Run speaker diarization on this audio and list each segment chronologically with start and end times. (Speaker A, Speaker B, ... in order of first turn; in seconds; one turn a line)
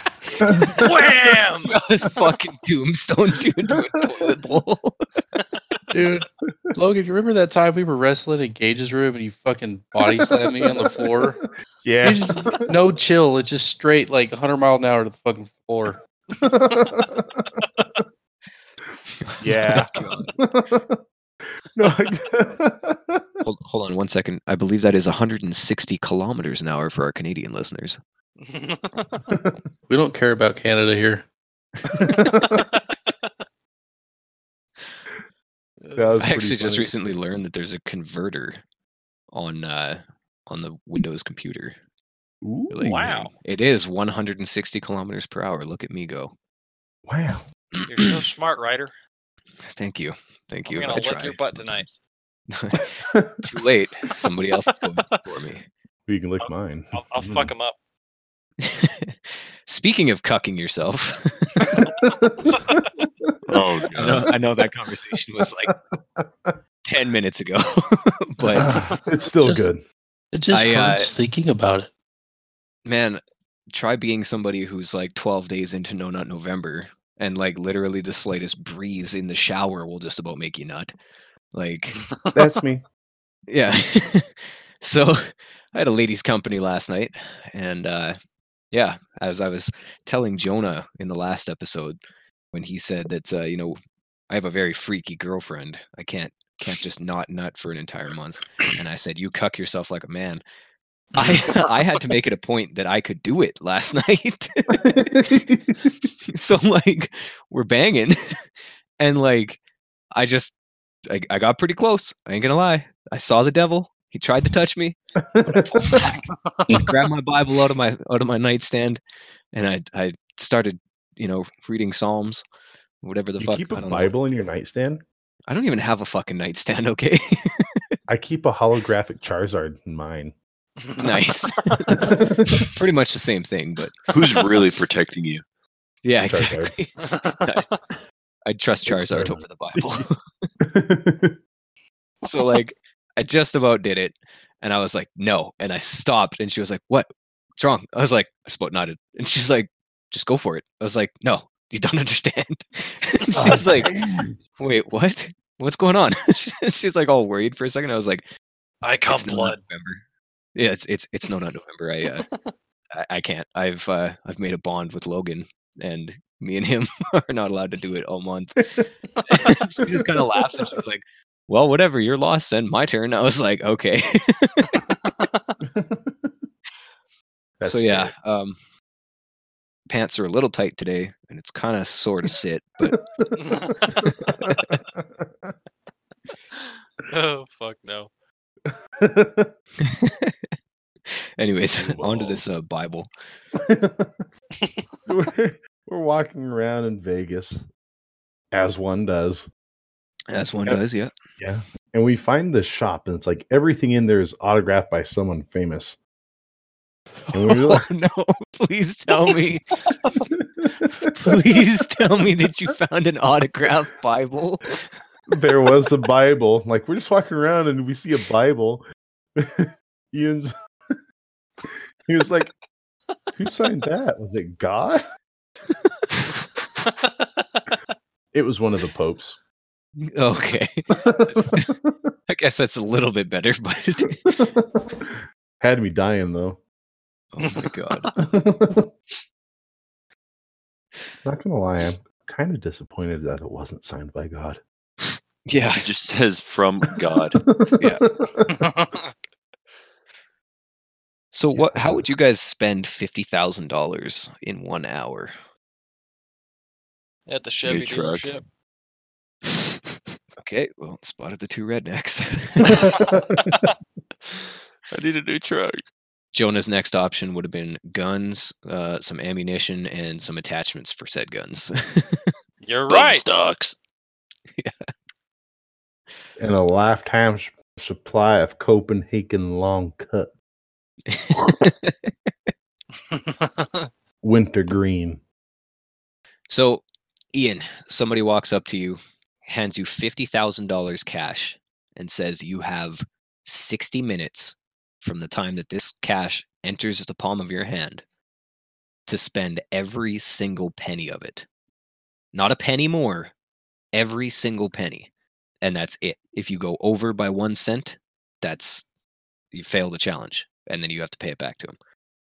Speaker A: 0.4-5.0
Speaker B: 0.5-0.8
Speaker C: 0.7-1.8
Speaker D: 5.9-11.4
Speaker B: 10.2-12.7
Speaker D: 12.0-16.0
Speaker B: 16.4-17.6
Speaker A: 19.2-20.3
Speaker B: 19.4-21.0
Speaker B: 21.7-23.4
Speaker A: 23.4-28.0
Speaker C: 28.4-29.2
Speaker B: 29.3-29.6
Speaker D: 29.9-31.2
Speaker B: 31.9-32.6
Speaker C: 32.1-33.1
Speaker B: 35.9-36.9
Speaker A: 36.2-38.6
Speaker A: 39.3-41.7
Speaker B: 42.4-43.1
Speaker A: 42.7-46.3
Speaker C: 42.8-43.3
Speaker B: 47.0-47.4
Speaker A: 47.7-48.1
Speaker C: 47.9-48.9
Speaker A: 49.7-51.9
Speaker C: 50.6-51.9
Speaker A: 52.5-55.6
Speaker B: 53.0-53.4
Speaker B: 56.1-57.5
Speaker C: 56.4-57.8
Speaker A: 58.6-61.9
Speaker B: 61.7-63.3
Speaker E: 63.5-64.3
Speaker A: 63.9-65.7
Speaker B: 65.4-66.6
Speaker A: 66.8-68.8
Speaker B: 68.6-69.8
Speaker D: 69.4-69.7
Speaker D: 70.3-71.9
Speaker A: 70.5-71.1
Speaker A: 72.8-73.2
Speaker A: 73.7-80.9
Speaker A: 81.5-82.1
Speaker B: 82.3-82.8
Speaker A: 83.5-88.2
Speaker A: 88.7-92.0
Speaker A: 92.5-93.8
Speaker A: 94.3-100.4
Speaker A: 101.1-105.3
Speaker B: 104.8-105.9
Speaker A: 106.3-108.2
Speaker A: 109.0-109.6
Speaker A: 110.1-110.5
Speaker A: 111.1-119.0
Speaker B: 115.2-116.1
Speaker A: 119.5-122.4
Speaker A: 123.0-124.1
Speaker B: 123.4-125.0
Speaker A: 125.5-127.8
Speaker B: 128.1-130.3
Speaker C: 130.8-132.1
Speaker A: 131.0-134.4
Speaker B: 132.1-132.7
Speaker E: 134.1-135.4
Speaker A: 136.0-137.7
Speaker B: 136.2-136.7
Speaker A: 138.4-140.5
Speaker B: 138.9-140.1
Speaker B: 140.6-141.3
Speaker A: 142.2-153.9
Speaker B: 153.3-154.3
Speaker A: 154.6-158.2
Speaker C: 158.8-159.6
Speaker A: 159.1-160.0
Speaker A: 160.5-162.2
Speaker C: 162.1-162.3
Speaker A: 162.9-175.0
Speaker B: 175.6-176.5
Speaker B: 177.6-178.1
Speaker A: 177.6-178.6
Speaker A: 179.9-183.0
Speaker B: 182.8-185.5
Speaker C: 183.4-184.1
Speaker A: 184.4-184.8
Speaker C: 187.0-188.1
Speaker B: 188.7-189.5
Speaker A: 189.8-190.5
Speaker A: 191.1-193.1
Speaker B: 191.7-192.4
Speaker B: 193.6-194.2
Speaker B: 195.1-197.6
Speaker B: 198.5-199.5
Speaker A: 200.3-201.1
Speaker B: 201.4-206.0
Speaker A: 207.3-209.8
Speaker B: 207.3-207.9
Speaker B: 210.3-211.3
Speaker A: 211.1-214.9
Speaker B: 215.3-218.8
Speaker B: 219.3-220.5
Speaker B: 221.6-222.5
Speaker B: 223.3-225.0
Speaker A: 225.7-226.1
Speaker C: 226.8-227.7
Speaker B: 228.3-229.4
Speaker A: 230.1-231.7
Speaker B: 231.0-232.1
Speaker A: 232.3-234.4
Speaker B: 234.2-236.6
Speaker A: 237.3-238.1
Speaker C: 237.5-238.1
Speaker B: 238.2-238.9
Speaker B: 241.2-244.6
Speaker A: 245.5-245.9
Speaker E: 245.8-247.4
Speaker B: 247.1-248.7
Speaker C: 248.5-249.0
Speaker A: 251.3-255.3
Speaker B: 251.6-252.0
Speaker C: 257.3-258.4
Speaker E: 257.6-258.3
Speaker A: 260.4-263.1
Speaker B: 262.7-263.5
Speaker E: 264.9-265.8
Speaker A: 266.3-272.3
Speaker C: 272.6-273.2
Speaker E: 272.9-273.7
Speaker B: 276.4-280.3
Speaker A: 281.1-282.5
Speaker C: 283.1-283.9
Speaker B: 284.2-285.2
Speaker A: 286.5-298.0
Speaker A: 299.1-301.4
Speaker A: 302.3-303.3
Speaker A: 303.9-305.1
Speaker A: 305.6-308.9
Speaker A: 309.5-311.8